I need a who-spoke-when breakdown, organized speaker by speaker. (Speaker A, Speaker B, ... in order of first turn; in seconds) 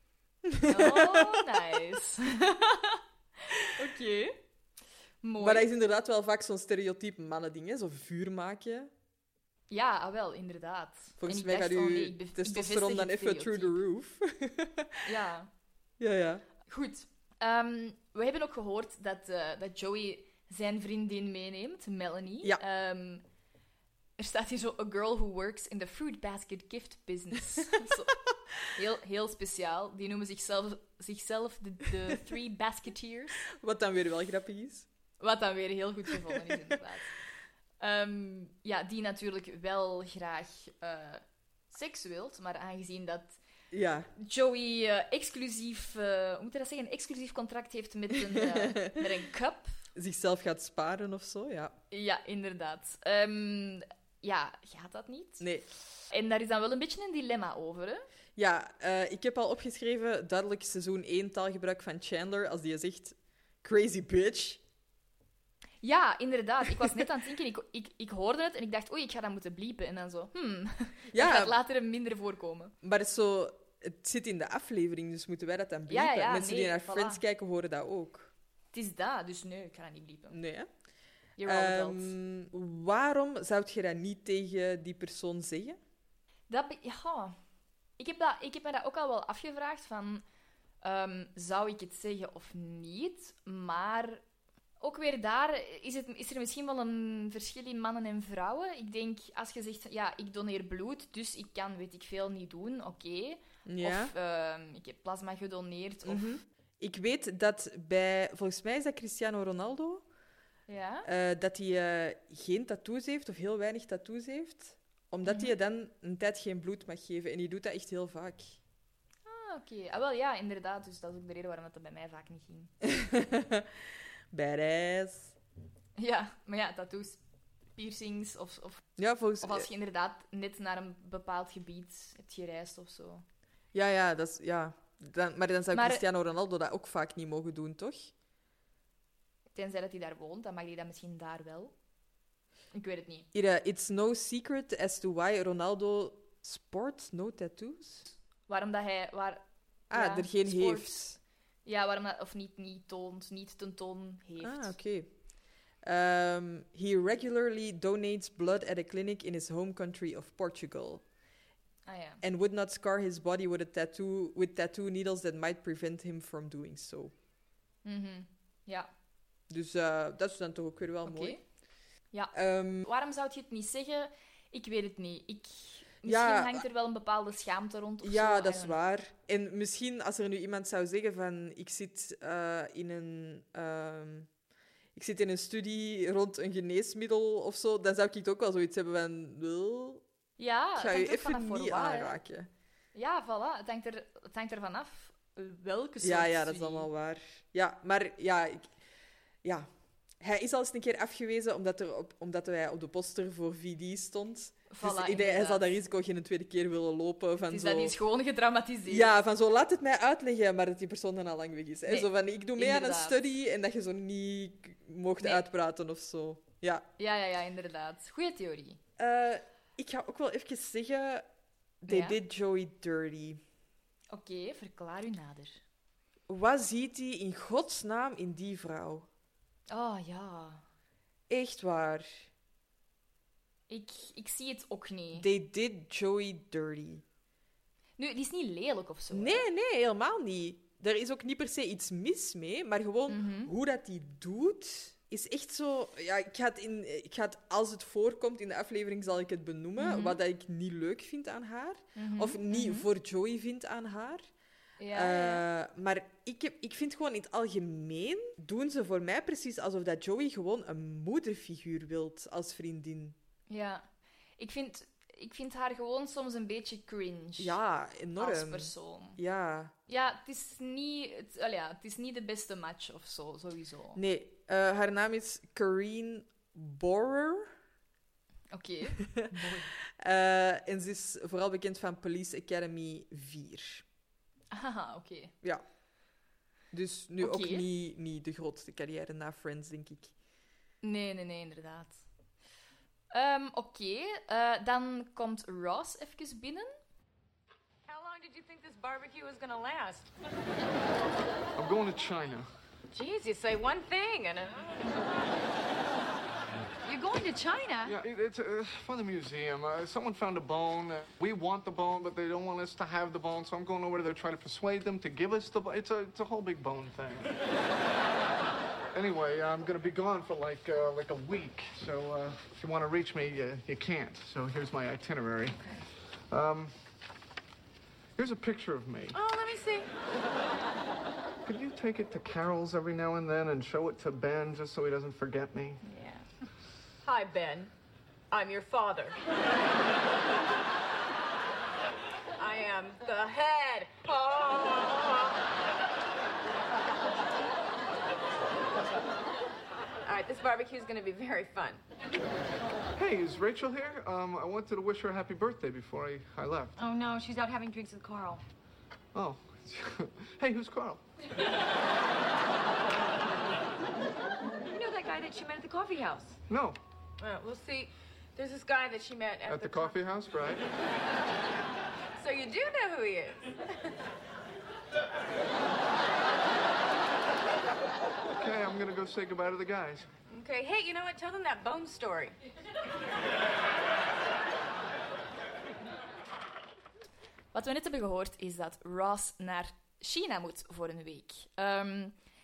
Speaker A: 0.5-1.4, 5.4-8.9, 11.2-14.9, 16.0-16.4, 33.6-34.9, 43.7-44.1, 48.7-48.9, 50.0-51.8, 55.4-55.6, 58.4-64.6, 71.1-71.5, 72.8-78.3, 80.3-80.7, 81.5-85.8, 103.7-104.1, 106.1-110.0, 111.0-118.6, 122.8-123.7, 124.3-125.3, 129.0-129.7, 133.7-138.1, 143.3-148.1, 149.9-151.2, 154.4-161.1, 162.2-167.1, 169.5-171.4, 172.3-172.8, 176.1-176.7, 178.0-184.3, 184.9-190.0, 190.8-192.5, 196.0-198.7, 200.2-207.9, 208.9-216.9, 219.0-221.3, 221.8-223.4, 226.3-229.1, 231.3-232.3, 235.1-237.0, 239.1-254.2, 254.9-263.2, 267.4-269.7, 274.0-277.5, 280.0-283.9, 286.7-290.1
Speaker B: 0.7-4.4, 5.2-5.7, 9.7-13.8, 15.0-15.5, 16.7-23.2, 24.2-28.1, 28.7-33.5, 35.2-37.2, 37.8-43.4, 44.2-49.9, 51.9-58.1, 65.8-72.7, 75.9-77.2, 78.7-80.4, 81.4-82.2, 86.5-87.4, 88.0-90.2, 90.8-94.2, 94.8-106.3, 110.7-111.1, 115.3-115.5, 119.2-122.7, 126.0-127.2, 127.8-133.2, 135.7-136.0, 139.5-141.8, 142.7-143.3, 148.5-154.8, 161.9-162.2, 167.8-168.9, 171.0-171.4, 172.1-178.8, 190.4-192.2, 192.9-196.9, 204.7-205.7, 207.5-209.1, 211.8-213.2, 217.0-218.8, 221.9-222.2, 224.1-225.6, 229.7-230.7, 233.7-235.3, 238.0-239.4, 243.1-243.5, 249.8-250.2, 252.0-252.9, 254.8-255.4, 263.5-263.9, 264.4-267.6, 268.2-269.2, 269.9-274.0, 278.5-279.7, 284.5-285.3, 287.2-287.6, 290.8-292.0, 293.1-296.8, 335.8-336.2, 387.5-392.2
Speaker C: 297.9-300.1, 302.9-304.8, 306.8-308.0, 329.1-329.9, 337.0-337.7, 338.3-339.2, 342.4-345.4, 350.0-351.8, 356.8-358.4, 364.7-366.4, 367.2-370.0, 372.2-373.5, 380.3-382.4
Speaker D: 301.6-302.5, 307.9-317.4, 318.9-326.8, 328.1-329.2, 331.4-335.8, 352.9-356.8, 359.1-361.0, 366.5-366.8, 369.5-370.7, 378.3-380.1